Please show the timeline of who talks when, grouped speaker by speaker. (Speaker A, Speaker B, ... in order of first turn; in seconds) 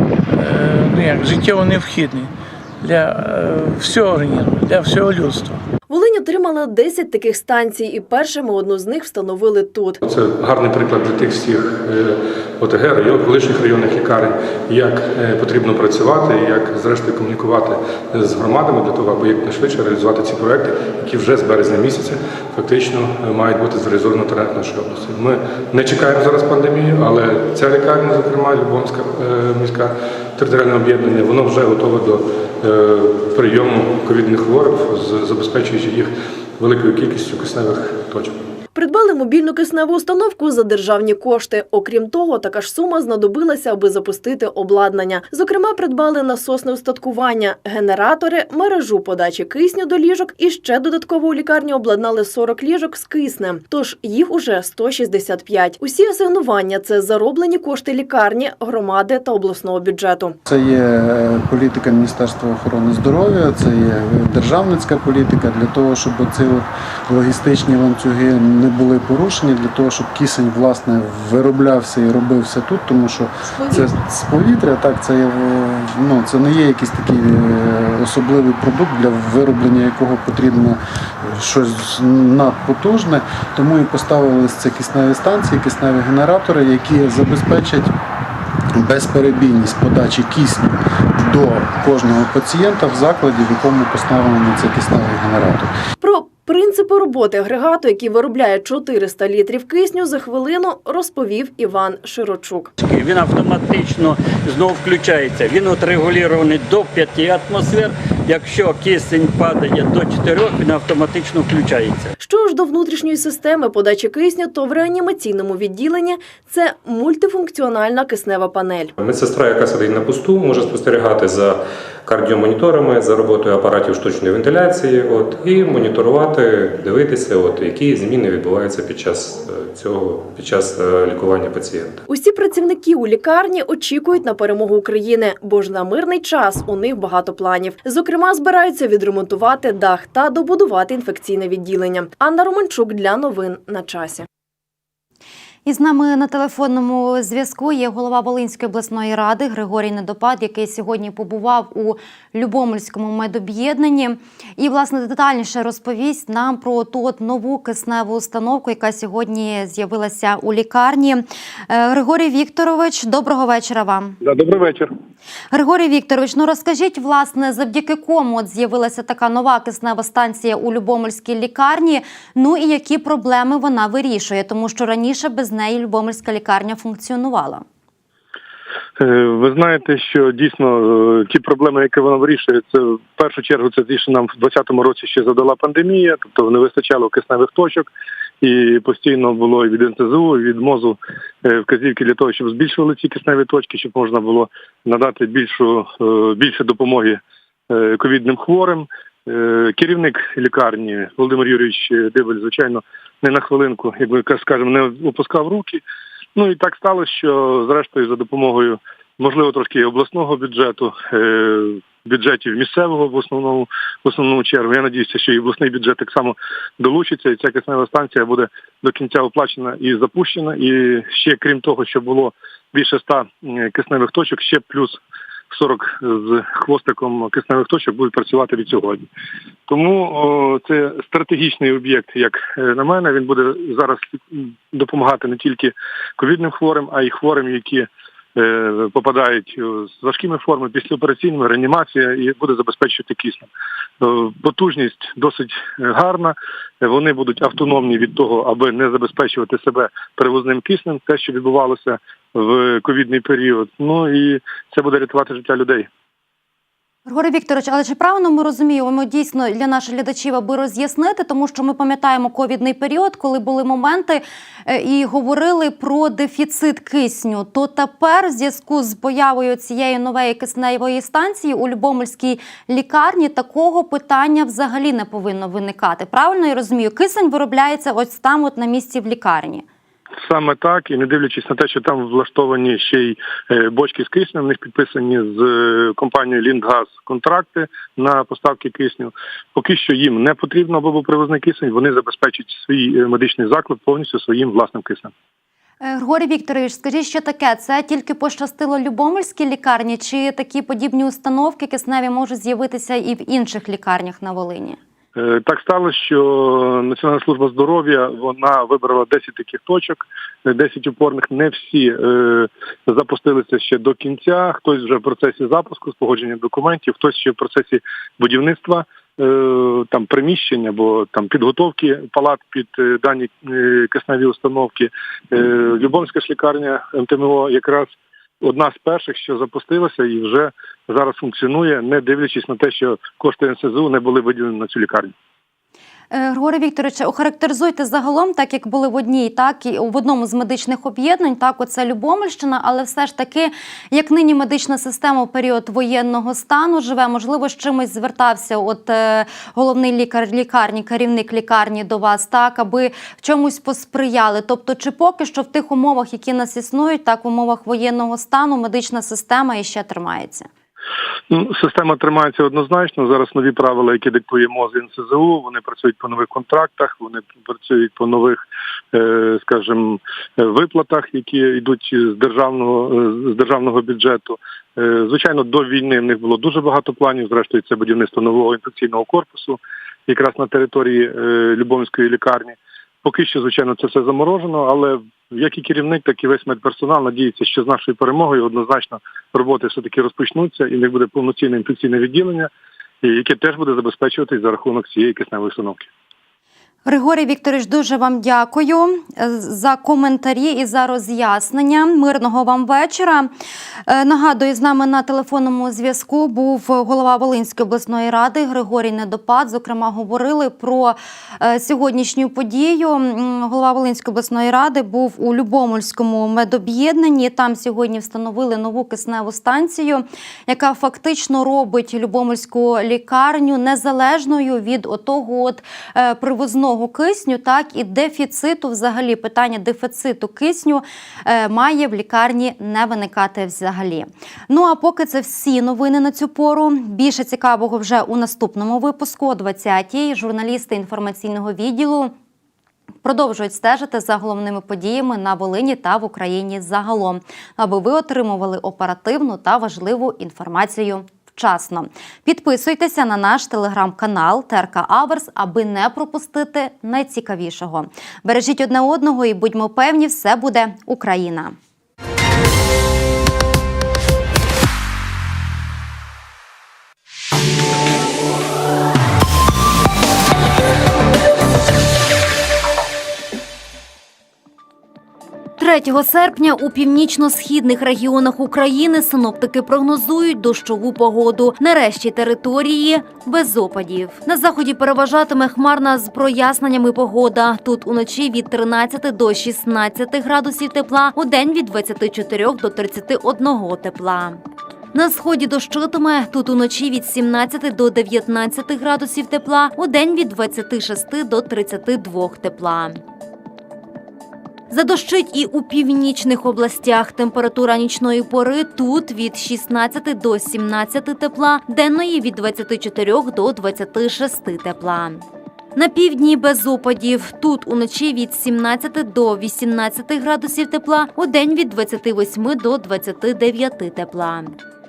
Speaker A: 0.3-5.6
Speaker B: 5.9-10.0, 38.7-60.4, 96.0-102.7, 112.2-118.9, 132.1-144.2
Speaker C: 10.0-38.4, 164.2-164.9, 179.0-187.9, 188.4-205.8, 206.3-225.0, 225.5-229.0, 229.7-243.5, 244.0-255.9, 280.2-295.1, 305.1-327.9, 328.4-335.1, 361.3-368.4, 368.9-392.5, 393.0-395.9
Speaker D: 60.4-87.9, 88.7-95.7
Speaker E: 102.8-112.1
Speaker F: 119.0-132.0
Speaker G: 145.7-164.2, 165.5-177.6, 257.1-279.6, 295.8-304.8, 336.1-360.5, 396.8-403.3, 403.9-442.1, 443.0-461.5, 475.6-494.4, 494.9-503.0, 504.7-515.2, 515.7-524.5